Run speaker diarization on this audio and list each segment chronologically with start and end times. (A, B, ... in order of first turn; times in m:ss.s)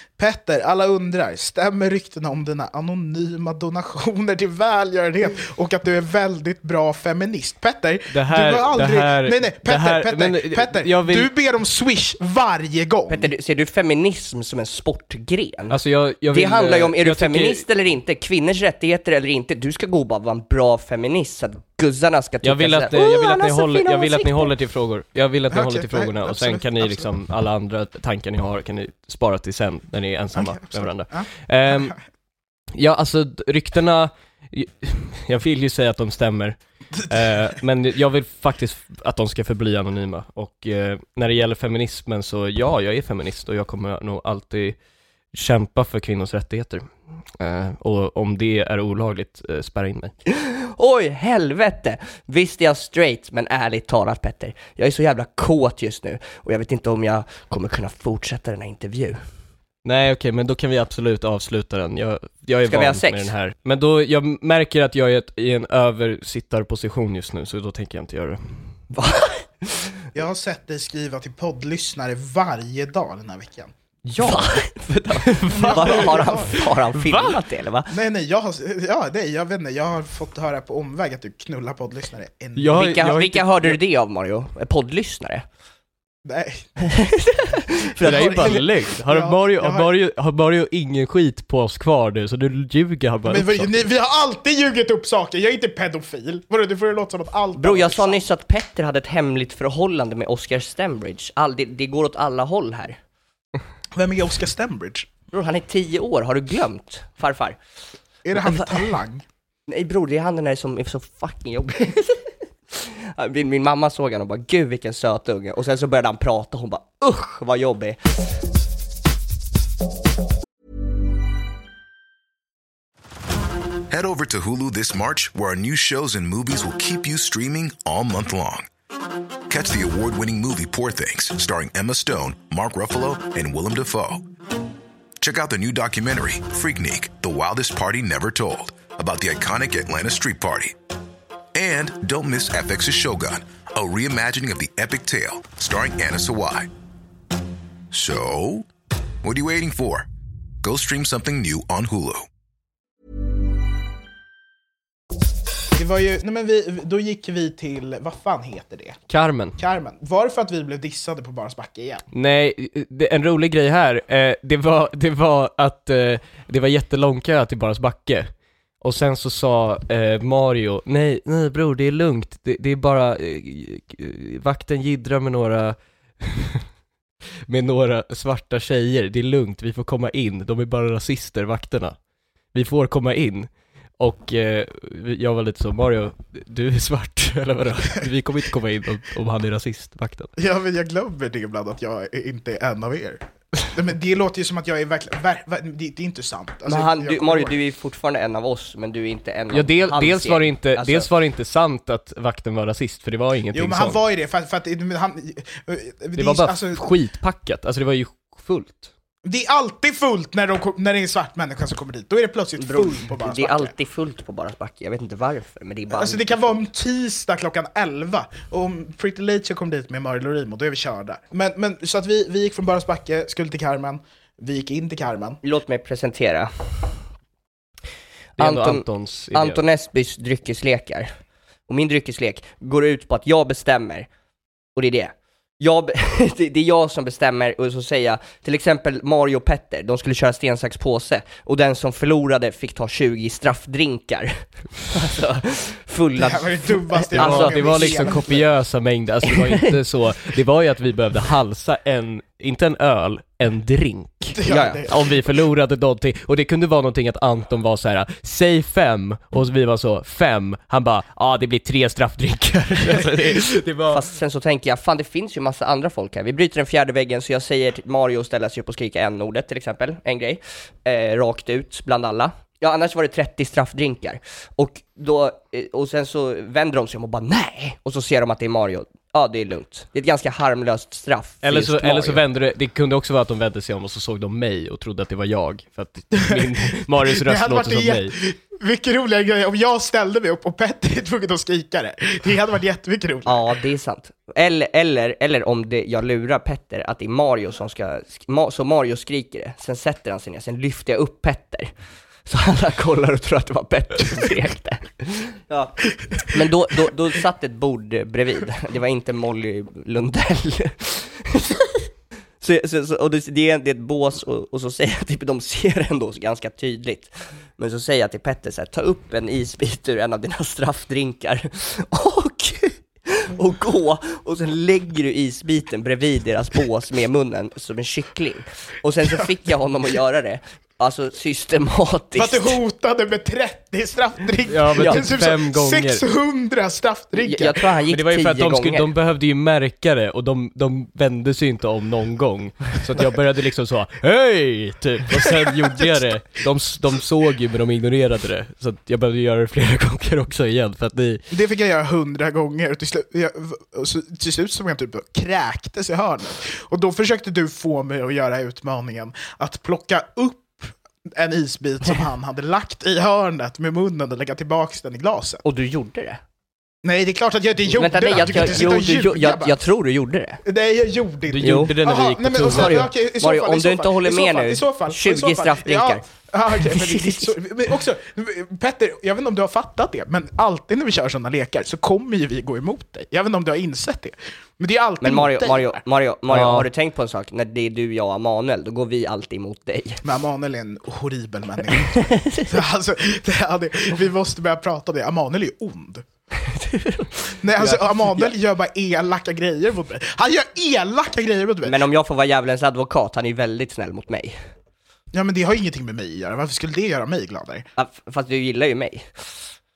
0:00.2-0:13.3 A
0:08.1-0:11.3 B
0:13.1-0:15.8 C
0:15.7-0:17.6 B
0:16.3-0:24.5 C
0:22.4-0:32.0 B
0:25.5-0:27.1 A
0:30.4-0:31.9 A
0:32.8-0:44.8 B
0:45.3-0:46.9 B
0:47.4-0:50.1 B
0:50.3-0:59.2 C
0:59.8-1:08.4 B
1:02.7-1:03.3 C
1:08.9-1:09.9 C
1:10.1-1:13.7 A
1:14.1-1:14.6 B
1:14.2-1:17.9 C
1:15.2-1:17.4 B
1:15.5-1:16.7 A
1:17.9-1:22.9 A
1:22.6-1:23.8 B
1:22.7-1:25.4 C
1:26.2-1:26.9 A
1:26.8-1:28.7 C
1:28.0-1:33.7 B
1:28.0-1:29.9 A
1:33.3-1:38.2 A
1:37.6-1:43.0 C
1:44.0-1:45.1 A
1:45.3-1:47.6 C
1:48.2-1:49.2 A
1:48.4-1:48.9 C
1:49.7-1:58.2 C
2:03.9-2:08.7 D
2:09.5-2:14.2 D
2:15.2-2:20.8 D
2:21.5-2:26.7 D
2:27.9-2:28.7 D
2:29.2-2:30.1 D
2:30.6-2:32.3 D
2:35.7-2:39.0 A
2:39.1-2:39.6 B
2:39.6-2:42.0 A
2:42.1-2:48.3 B
2:48.8-2:56.6 B
2:57.5-3:02.0 B
3:02.5-3:10.3 B
3:10.4-3:17.6 A
3:16.7-3:21.1 C
3:19.5-3:24.0 B
3:23.5-3:26.9 A
3:26.2-3:28.9 B
3:29.2-3:33.7 A
3:32.6-3:36.6 C
3:35.9-3:45.4 A
3:45.4-3:46.9 C
3:48.4-3:49.6 B
3:48.4-3:51.1 C
3:51.7-3:54.1 C
3:54.8-4:08.2 C
4:06.2-4:08.5 A
4:07.1-4:24.0 B
4:09.3-4:09.8 C
4:14.4-4:15.2 A
4:14.4-4:14.8 C
4:23.9-4:42.2 C
4:41.4-4:48.2 B
4:46.3-4:53.5 A
4:53.3-5:01.7 C
5:02.3-5:11.9 C
5:12.4-5:32.6 C
5:32.2-5:37.6 A
5:34.5-5:36.0 B
5:34.8-5:35.0 C
5:37.2-5:38.9 C
5:37.9-5:51.2 B
5:45.2-5:46.1 A
5:51.3-6:05.4 A
6:05.4-6:06.2 C
6:06.8-6:09.6 A
6:07.7-6:10.4 C
6:10.4-6:25.8 A
6:11.3-6:12.9 B
6:11.4-6:11.7 C
6:12.4-6:17.3 C
6:25.0-6:30.0 C
6:26.3-6:26.7 B
6:30.0-6:36.1 A
6:31.8-6:32.5 C
6:36.4-6:38.3 C
6:37.4-6:41.8 A
6:41.6-6:44.4 C
6:45.1-6:47.7 A
6:47.8-6:49.4 C